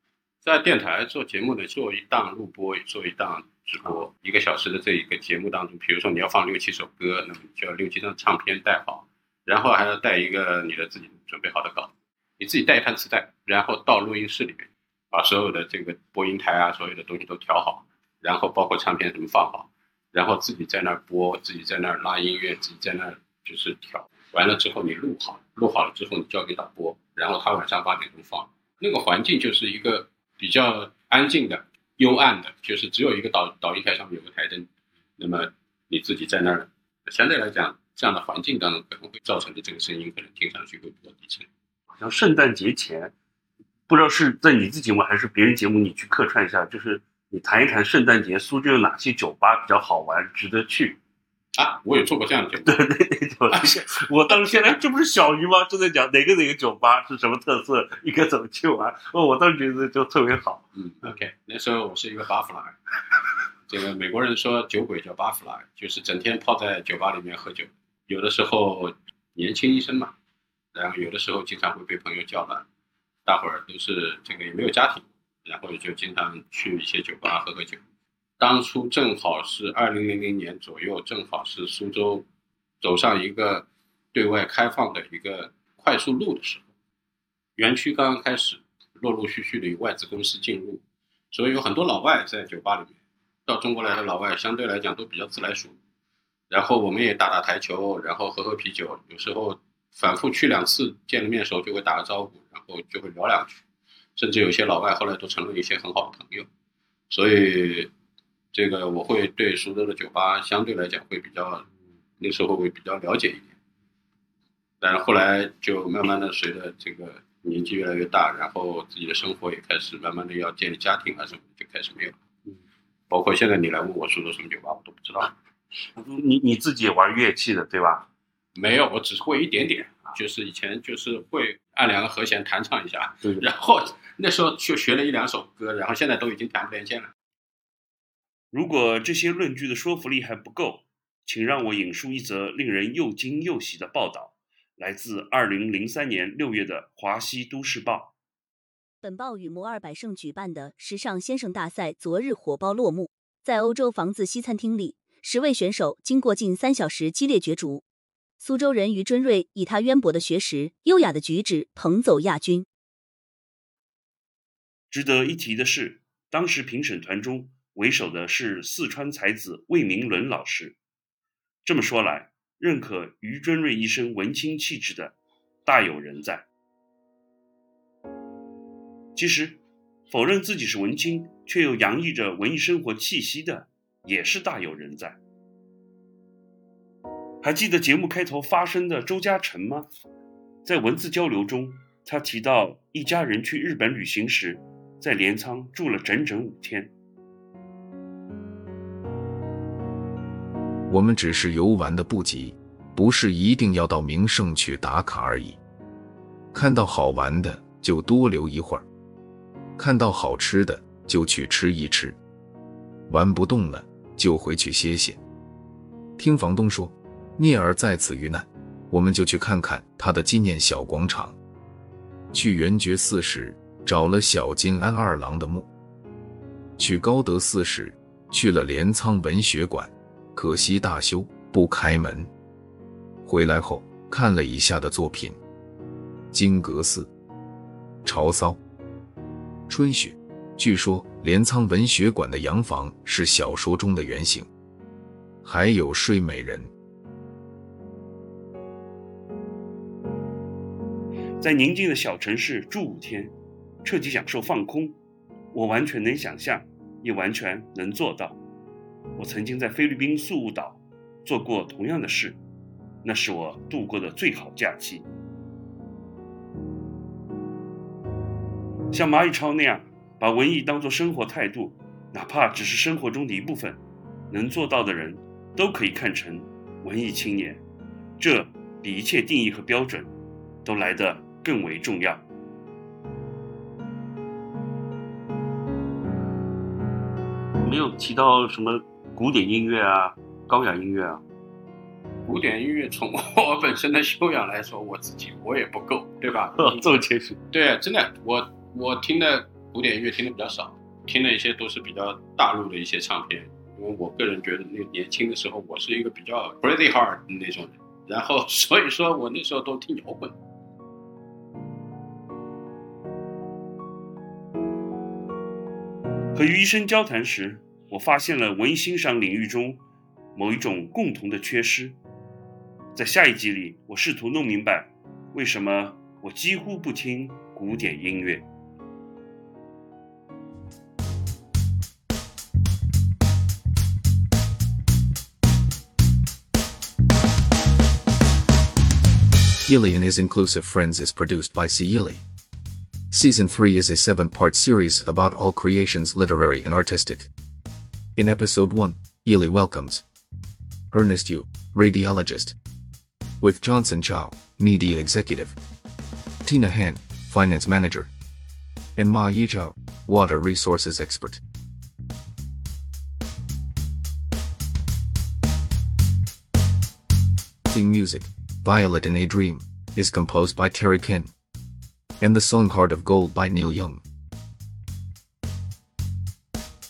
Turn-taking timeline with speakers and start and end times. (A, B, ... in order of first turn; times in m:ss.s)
0:00.4-0:41.5 A
0:41.9-0:43.1 B
0:43.9-0:51.0 B
0:51.5-0:52.8 A
0:52.6-1:00.6 B
1:00.8-1:02.8 A
1:03.7-1:10.1 A
1:10.7-1:12.6 A
1:13.2-1:17.8 A
1:18.4-1:22.2 A
1:22.8-1:26.6 A
1:27.6-1:35.8 A
1:36.5-1:43.6 A
1:44.2-1:46.5 A
1:47.1-1:47.9 A
1:48.5-1:51.6 A
1:52.2-1:53.5 A
1:54.8-2:02.2 A
2:03.1-2:05.3 A
2:06.0-2:08.0 B
2:08.5-2:17.1 A
2:18.5-2:28.1 B
2:29.0-2:37.8 C
2:38.4-2:42.6 C
2:44.9-2:50.8 B
2:51.6-2:55.1 B
2:55.6-2:56.4 B
2:59.2-3:05.2 B
3:07.4-3:09.9 B
3:10.6-3:16.9 B
3:20.9-3:25.6 D
3:26.5-3:28.8 D
3:29.8-3:32.2 D
3:33.1-3:35.2 D
3:36.2-3:41.4 D
3:42.3-3:45.7 D
3:46.8-3:52.3 D
3:53.2-3:55.4 D
3:56.3-3:57.1 D
3:58.0-3:58.6 D
3:59.7-4:04.5 D
4:05.4-4:06.7 D
4:11.4-4:15.0 B
4:15.5-4:18.4 B
4:19.2-4:22.4 B
4:23.0-4:25.0 B
4:28.9-4:37.6 B
4:38.2-4:40.1 B
4:40.6-4:42.2 B
4:47.6-4:51.2 B
4:52.2-5:10.3 A
4:56.6-4:57.4 B
5:16.3-5:19.8 B
5:20.3-5:22.0 B
5:22.9-5:28.4 B
5:39.7-5:42.2 D
5:43.1-5:47.3 D
5:48.2-5:50.0 D
5:50.9-5:52.5 D
5:53.4-5:55.6 D
5:56.4-5:58.1 D
5:59.0-6:01.4 D
6:07.7-6:11.3 D
6:12.2-6:14.0 D